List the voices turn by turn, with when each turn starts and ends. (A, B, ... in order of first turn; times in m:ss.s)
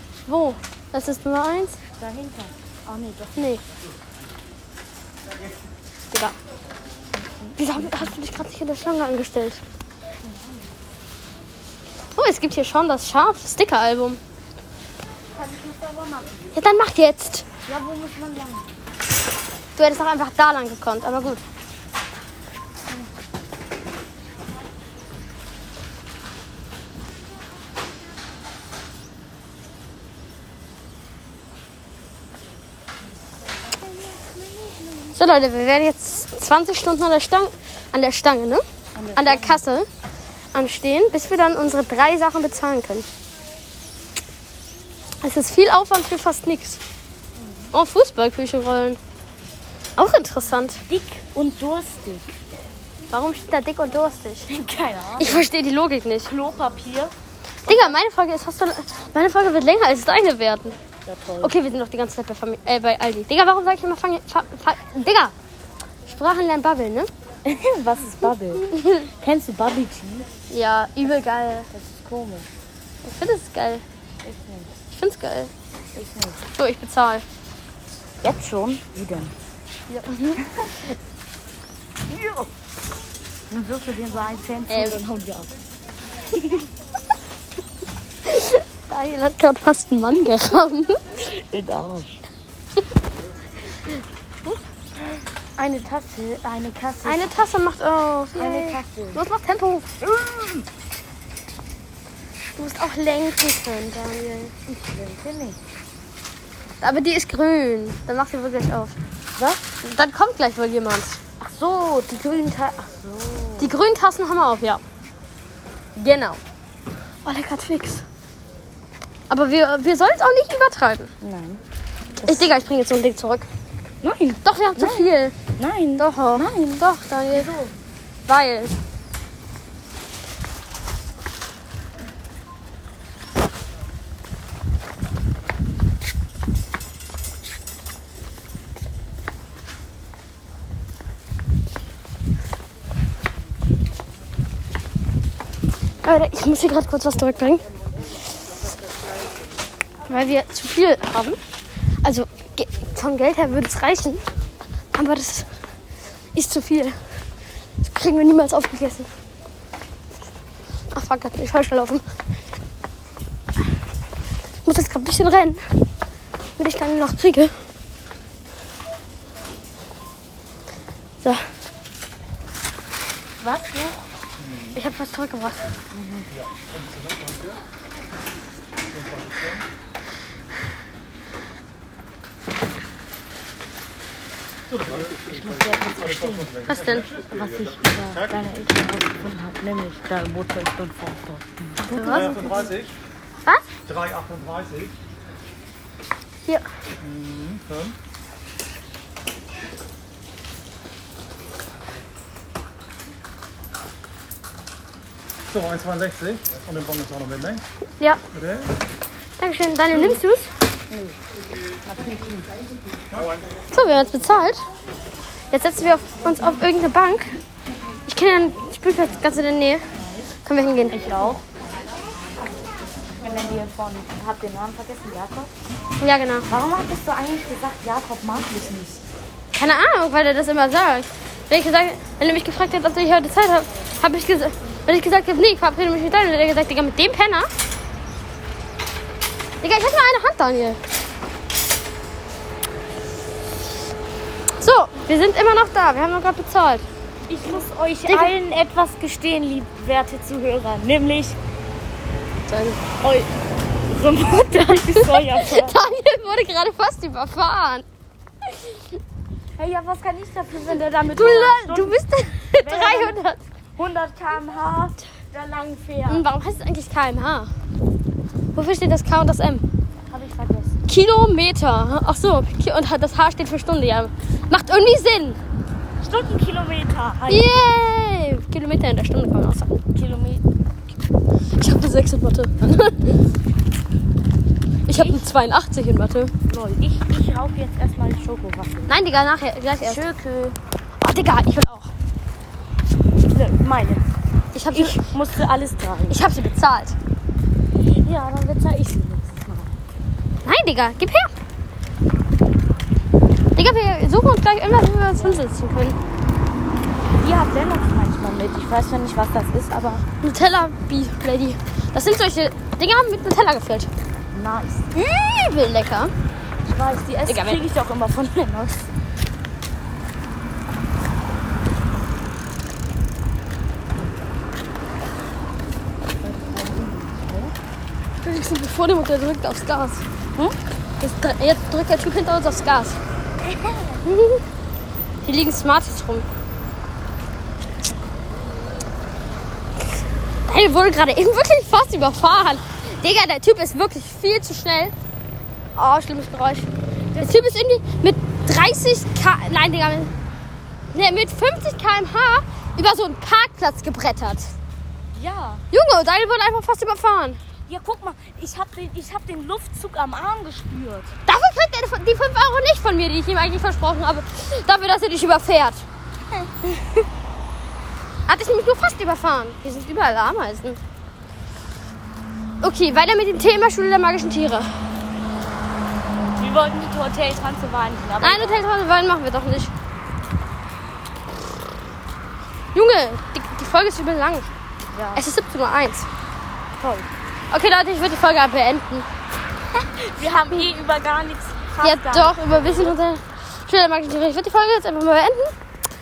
0:00.2-0:01.8 A
0:02.0-0:03.5 B
0:03.4-0:03.6 A
0:07.1-0:08.2 B
0:07.6-0:09.6 A
0:10.2-0:10.8 B
0:12.2-0:14.2 A
0:15.3-0:16.5 B
0:16.5-0:17.4 A
0:17.6-0:18.7 B
0:19.8-0:21.4 A
0:33.7-0:35.2 B
0:35.1-0:38.6 A
0:38.9-0:39.6 B
0:39.1-0:39.9 A
0:40.5-0:43.1 A
0:45.2-0:46.8 A
0:47.4-0:47.7 B
0:47.7-0:49.0 A
0:50.0-0:50.8 A
0:50.9-0:52.3 B
0:53.1-0:54.5 A
0:54.5-0:55.5 B
0:55.2-0:56.3 A
0:56.2-0:57.1 B
0:57.6-0:58.0 B
0:57.6-1:00.8 A
1:01.0-1:01.5 B
1:01.4-1:05.3 A
1:06.1-1:07.1 A
1:07.4-1:10.3 B
1:08.7-1:09.0 A
1:10.5-1:11.7 A
1:11.7-1:12.5 B
1:13.0-1:13.8 A
1:14.2-1:14.7 B
1:14.9-1:15.5 A
1:15.9-1:16.4 B
1:16.6-1:17.2 A
1:18.2-1:19.3 B
1:19.9-1:20.5 A
1:20.4-1:20.7 B
1:22.1-1:22.5 B
1:23.5-1:25.5 B
1:24.7-1:25.0 A
1:26.3-1:26.6 B
1:28.2-1:31.0 A
1:31.3-1:32.2 B
1:35.6-1:37.4 B
1:37.0-1:39.9 A
1:38.3-1:39.2 B
1:40.0-1:40.6 B
1:42.6-1:44.5 A
1:44.7-1:45.6 B
1:46.8-1:49.0 A
1:49.3-1:49.6 B
1:49.8-1:51.2 A
1:51.4-1:53.8 B
1:53.6-1:54.8 A
1:56.0-1:56.4 A
1:57.2-1:58.0 A
1:59.3-2:01.1 A
2:01.2-2:01.6 B
2:02.2-2:02.5 B
2:02.2-2:03.4 A
2:04.0-2:07.7 B
2:04.4-2:05.4 A
2:06.0-2:07.5 A
2:08.3-2:08.8 A
2:26.0-2:27.6 A
2:30.1-2:31.4 A
2:32.0-2:34.2 A
2:34.9-2:35.5 A
2:36.3-2:37.0 A
2:37.8-2:39.1 A
2:40.9-2:42.0 A
2:44.6-2:45.6 A
2:46.6-2:47.5 A
2:53.4-2:54.0 B
2:54.4-2:54.8 C
2:54.8-2:55.6 A
2:55.9-2:56.3 B
2:56.3-2:57.6 C
2:58.9-2:59.6 C
3:04.7-3:08.4 C
3:05.2-3:06.5 B
3:06.7-3:07.1 A
3:07.1-3:12.2 B
3:11.8-3:12.6 A
3:12.0-3:12.9 C
3:13.8-3:14.9 C
3:17.0-3:17.9 C
3:25.5-3:27.6 C
3:28.3-3:28.7 C
3:29.4-3:30.5 A
3:30.9-3:31.2 B
3:31.8-3:32.5 B
3:33.1-3:33.4 C
3:33.7-3:34.6 A
3:35.5-3:37.4 A
3:38.1-3:39.8 A
3:40.0-3:40.2 B
3:40.4-3:41.0 A
3:40.9-3:41.4 B
3:43.2-3:45.5 B
3:46.0-3:46.5 A
3:46.5-3:49.0 B
3:49.5-3:57.5 A
3:59.6-4:00.8 A
4:04.6-4:06.8 A
4:07.3-4:11.4 B
4:08.1-4:08.3 A
4:12.5-4:12.8 A
4:13.0-4:13.3 B
4:13.9-4:15.9 B
4:14.4-4:17.8 A
4:18.4-4:18.8 A
4:19.6-4:22.0 B
4:21.2-4:23.4 A
4:22.6-4:23.2 B
4:23.8-4:26.2 B
4:26.1-4:27.5 A
4:28.6-4:29.6 A
4:30.1-4:30.8 B
4:30.9-4:35.4 A
4:36.0-4:37.6 B
4:37.3-4:39.8 A
4:39.9-4:40.4 B
4:41.6-4:43.2 A
4:44.9-4:46.3 A
4:44.9-4:45.3 B
4:46.4-4:49.0 B
4:48.9-4:50.0 A
4:49.8-4:50.6 B
4:51.0-4:51.9 A
4:53.2-4:54.1 B
4:54.5-4:55.1 A
4:54.7-4:56.2 B
4:56.1-4:57.0 A
4:57.8-4:59.7 B
5:00.4-5:01.3 A
5:03.6-5:06.0 A
5:05.1-5:05.5 B
5:07.2-5:10.0 B
5:10.2-5:13.9 A
5:14.3-5:14.9 B
5:14.9-5:16.1 A
5:16.6-5:18.9 B
5:17.3-5:17.6 A
5:26.2-5:27.5 B
5:28.2-5:30.0 A
5:31.0-5:33.0 A
5:33.4-5:34.0 B
5:34.0-5:34.4 A
5:35.2-5:36.2 A
5:40.5-5:44.9 A
5:45.8-5:46.7 A
5:47.1-5:47.4 B
5:47.2-5:50.1 A
5:50.9-5:54.5 A
5:55.1-5:55.6 B
5:55.7-5:57.4 A
5:57.7-6:01.1 B
6:01.3-6:05.8 A
6:08.3-6:10.8 A
6:12.6-6:14.7 A
6:16.2-6:18.6 B
6:18.2-6:19.7 A
6:22.7-6:24.5 A
6:24.9-6:25.2 B
6:25.1-6:26.1 A
6:26.8-6:27.1 B
6:27.5-6:29.0 A
6:29.7-6:33.0 B
6:31.8-6:35.5 A